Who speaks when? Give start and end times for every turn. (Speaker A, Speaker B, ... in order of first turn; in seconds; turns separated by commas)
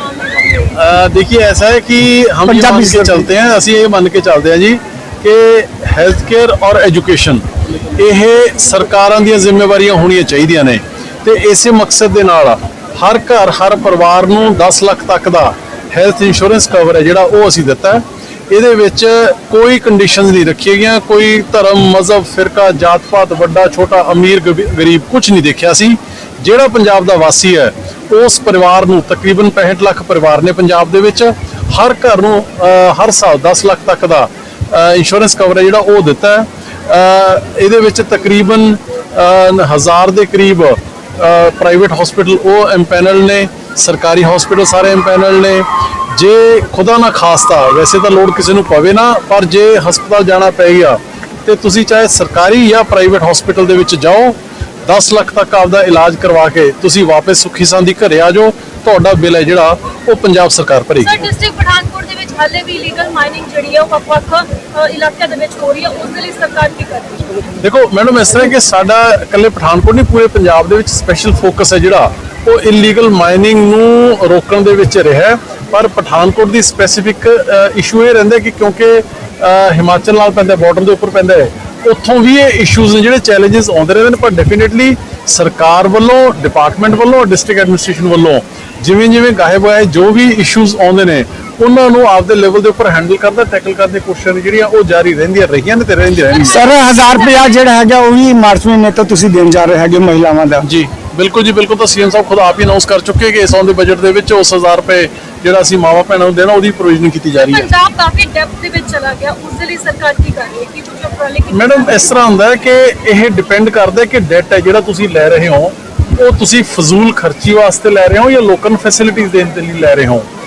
Speaker A: 0.2-0.6, Speaker B: 0.6-61.2, Speaker C: 2.5-3.3, Speaker A: 61.0-67.3, Speaker B: 67.6-96.6, Speaker A: 96.3-97.5, Speaker C: 96.4-100.7, Speaker B: 100.6-107.7, Speaker A: 107.3-112.0, Speaker B: 111.5-120.2